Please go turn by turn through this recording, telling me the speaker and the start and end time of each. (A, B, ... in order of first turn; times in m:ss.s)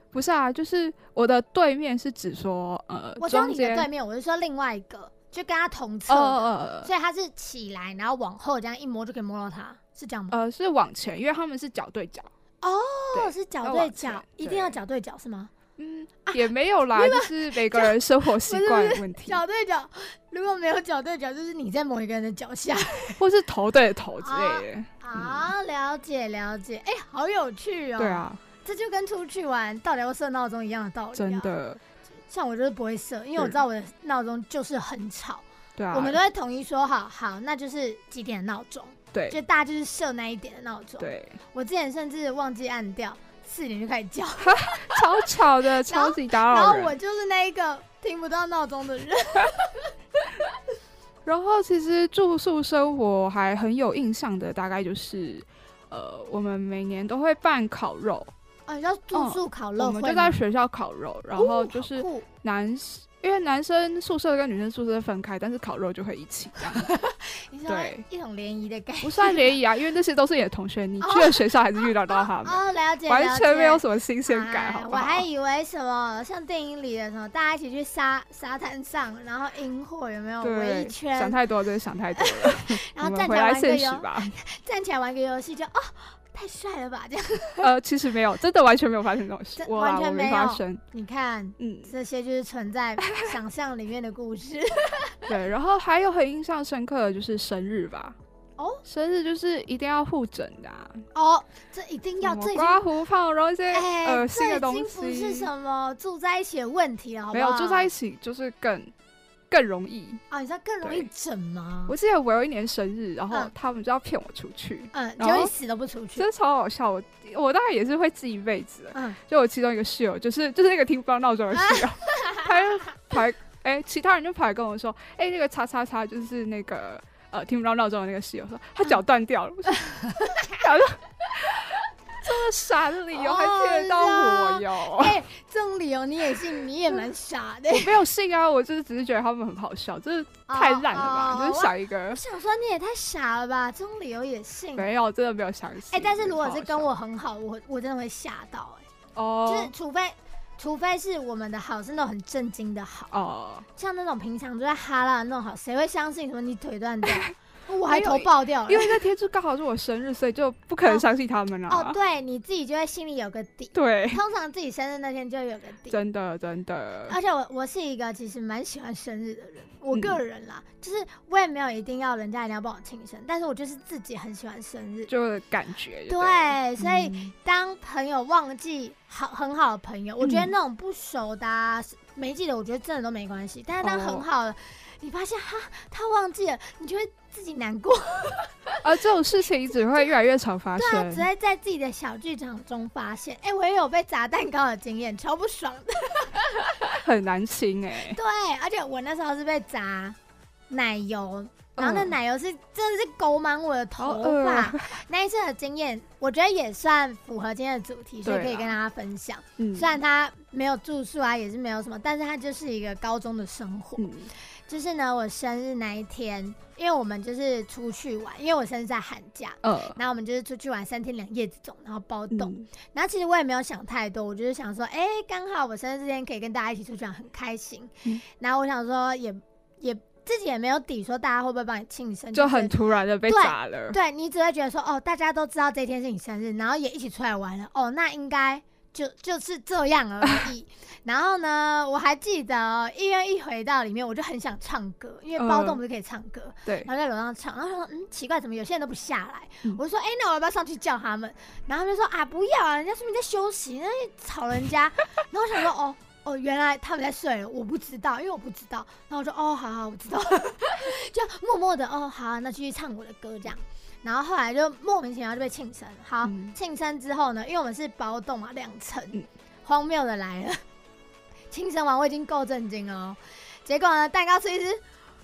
0:00.1-0:03.9 A
0:03.2-0:10.4 B
0:06.1-0:06.9 A
0:10.3-0:12.3 A
0:12.6-0:15.5 B
0:13.1-0:14.8 A
0:15.8-0:19.4 A
0:16.3-0:23.2 B
0:23.2-0:25.5 A
0:24.2-0:31.5 B
0:28.0-0:28.4 A
0:31.2-0:31.8 A
0:32.3-0:45.1 B
0:35.8-0:36.2 A
0:41.0-0:41.4 A
0:44.4-0:47.0 A
0:45.8-0:50.5 B
0:51.2-0:58.3 A
0:58.7-1:00.4 B
0:59.1-1:06.9 A
1:01.4-1:02.3 B
1:06.6-1:09.6 B
1:07.7-1:08.0 A
1:09.0-1:15.2 A
1:11.0-1:21.4 B
1:20.4-1:24.4 A
1:22.2-1:27.7 B
1:27.6-1:30.8 A
1:29.6-1:35.3 B
1:31.6-1:31.9 A
1:35.3-1:38.2 A
1:38.6-1:38.8 B
1:38.8-1:41.0 A
1:41.2-1:42.9 B
1:42.2-1:45.5 A
1:43.7-1:47.9 B
1:47.3-1:48.9 A
1:49.5-1:50.2 A
1:50.3-1:52.0 B
1:50.8-1:51.1 A
1:51.9-1:55.5 A
1:54.9-1:56.3 B
1:56.2-2:15.2 A
2:01.6-2:02.5 B
2:09.8-2:10.7 B
2:13.1-2:18.0 B
2:17.7-2:22.2 A
2:20.5-2:24.9 B
2:24.8-2:26.9 A
2:25.9-2:28.8 B
2:29.2-2:29.7 A
2:29.5-2:33.1 B
2:33.1-2:33.7 A
2:33.8-2:39.0 B
2:37.9-2:42.0 A
2:41.7-2:46.0 B
2:43.7-2:44.2 A
2:45.9-2:47.2 A
2:47.1-2:55.1 B
2:49.9-2:50.2 A
2:55.1-2:57.3 A
2:56.1-3:08.8 B
3:00.2-3:00.5 A
3:03.8-3:04.2 A
3:08.8-3:11.3 A
3:10.8-3:17.0 B
3:16.9-3:18.2 A
3:18.1-3:20.2 B
3:20.7-3:34.1 B
3:21.8-3:22.2 A
3:24.0-3:25.0 A
3:28.2-3:28.8 A
3:29.6-3:30.0 A
3:34.0-3:34.3 A
3:34.7-3:52.8 B
3:39.6-3:40.0 A
3:42.3-3:42.7 A
3:52.3-3:54.0 A
3:53.3-4:30.6 B
4:05.4-4:05.8 A
4:26.2-4:26.5 A
4:31.5-4:34.8 B